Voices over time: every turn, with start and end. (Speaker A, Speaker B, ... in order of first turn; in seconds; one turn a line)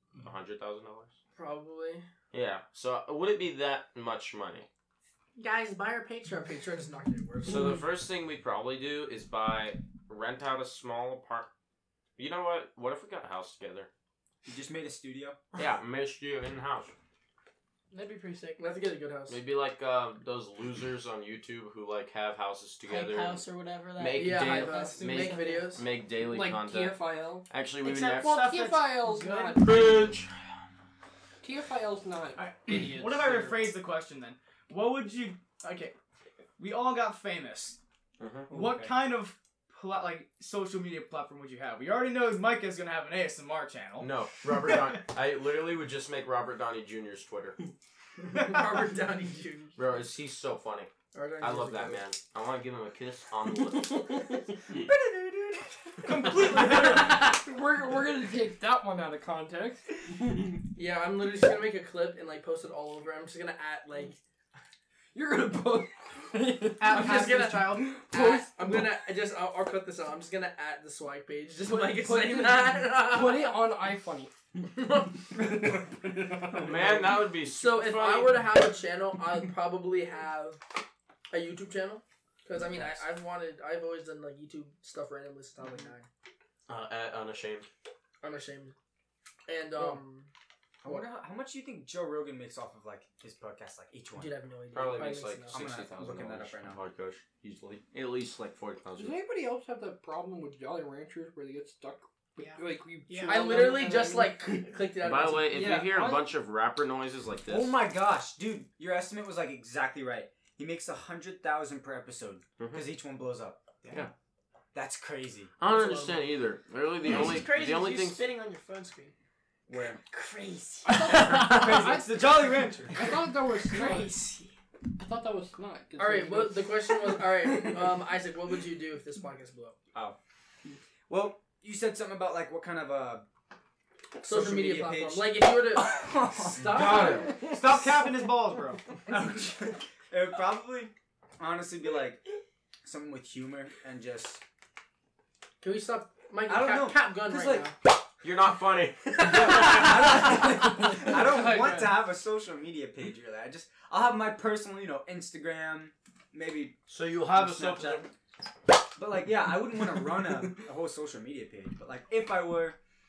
Speaker A: 0.2-1.1
Speaker B: 1.4-2.1
Speaker A: 2.3-4.7
Speaker B: 5.4-7.8
Speaker A: 7.4-11.5
Speaker A: 12.2-13.9
Speaker C: 14.5-15.4
Speaker A: 15.6-16.9
Speaker D: 17.9-18.6
Speaker B: 18.6-19.4
Speaker A: 19.3-23.4
Speaker D: 22.9-25.8
Speaker A: 24.0-28.4
Speaker B: 24.1-25.9
Speaker E: 26.2-27.5
Speaker D: 27.8-30.1
Speaker E: 28.2-30.0
Speaker A: 29.6-30.5
Speaker E: 31.4-33.7
Speaker F: 32.4-36.0
Speaker F: 36.6-37.8
Speaker A: 38.2-38.6
Speaker F: 38.5-44.1
Speaker C: 38.5-38.9
Speaker A: 44.0-47.6
Speaker B: 48.2-49.8
Speaker A: 49.8-54.4
Speaker B: 51.1-52.0
Speaker F: 54.8-57.4
Speaker E: 56.7-60.5
Speaker B: 60.8-64.2
Speaker E: 65.1-68.7
Speaker F: 66.8-67.8
Speaker B: 66.8-73.6
Speaker E: 71.7-74.3
Speaker B: 74.7-75.2
Speaker E: 75.4-77.0
Speaker A: 76.5-78.4
Speaker B: 77.5-80.6
Speaker B: 81.3-86.1
Speaker A: 86.7-87.7
Speaker B: 88.2-88.8
Speaker B: 89.5-90.3
Speaker C: 90.8-94.3
Speaker B: 94.2-95.6
Speaker A: 94.7-99.2
Speaker C: 95.5-96.8
Speaker E: 99.0-104.7
Speaker D: 102.4-103.4
Speaker B: 103.2-105.6
Speaker A: 105.0-107.8
Speaker C: 105.5-106.2
Speaker E: 105.6-106.2
Speaker C: 107.5-114.1
Speaker A: 112.6-112.9
Speaker C: 114.7-115.5
Speaker B: 115.6-116.2
Speaker A: 115.6-118.3
Speaker D: 117.0-119.1
Speaker A: 119.7-120.0
Speaker D: 120.0-121.1
Speaker E: 120.9-124.1
Speaker C: 121.2-123.0
Speaker F: 121.4-123.1
Speaker D: 123.6-124.5
Speaker E: 125.0-127.2
Speaker B: 126.0-129.8
Speaker C: 131.1-133.3
Speaker C: 134.2-137.8
Speaker B: 134.2-137.4
Speaker A: 136.7-137.4
Speaker F: 137.4-138.8
Speaker C: 139.1-142.3
Speaker C: 142.8-144.4
Speaker B: 145.6-147.8
Speaker C: 146.5-147.7
Speaker A: 148.2-150.2
Speaker C: 149.2-158.1
Speaker B: 149.3-151.9
Speaker A: 156.9-158.1
Speaker C: 159.0-162.8